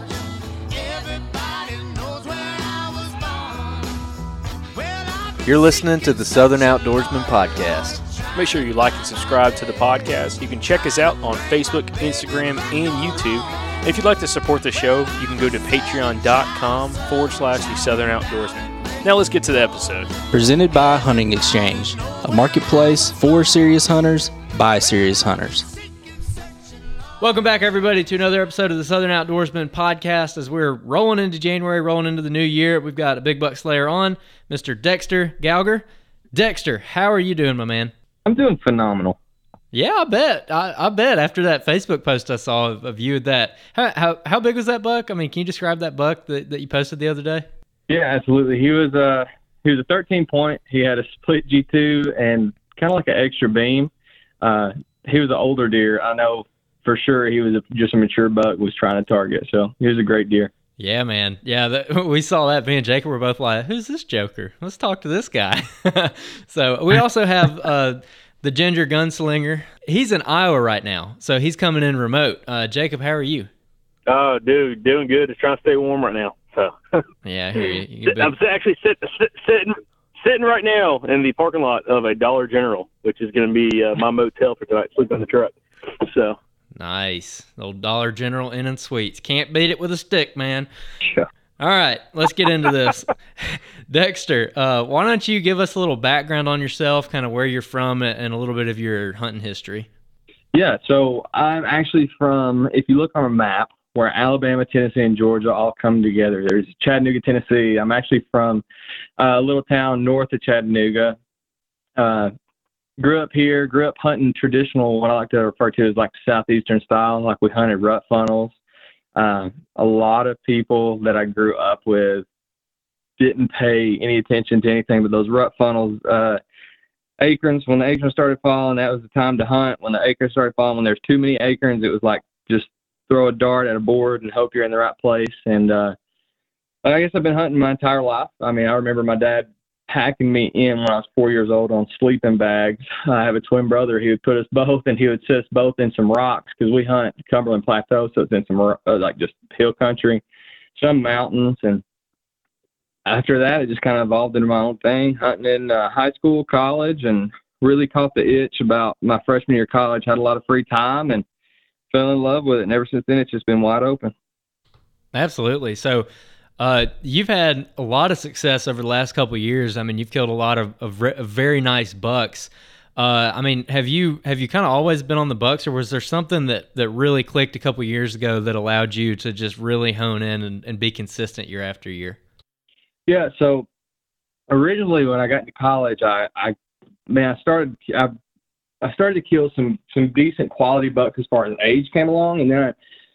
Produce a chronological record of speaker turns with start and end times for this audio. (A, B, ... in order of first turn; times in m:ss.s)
0:05.4-0:08.0 A
0:08.3-0:20.2 B
0:20.3-0:25.7 C
0:27.2-0:37.9 A
0:38.3-0:39.2 D
0:39.7-0:47.4 A
0:47.9-0:53.9 D
0:54.4-1:00.5 D
1:00.8-1:13.5 A
1:14.1-1:17.0 E
1:17.2-1:18.3 A
1:18.1-1:26.4 E
1:26.8-1:30.7 A
1:31.6-1:39.9 A
1:40.5-1:48.6 D
1:49.2-1:51.2 D
1:52.0-1:52.3 D
1:53.0-1:58.6 D
1:59.2-2:02.3 D
2:03.2-2:06.4 D
2:07.2-2:16.0 D
2:16.8-2:30.2 D
2:30.8-2:31.8 D
2:33.1-2:41.2 D
2:41.9-2:44.1 D
2:45.1-2:46.1 A
2:46.6-3:02.2 A
3:03.1-3:03.7 D
3:04.5-3:06.6 D
3:07.1-3:08.1 D
3:08.8-3:12.8 D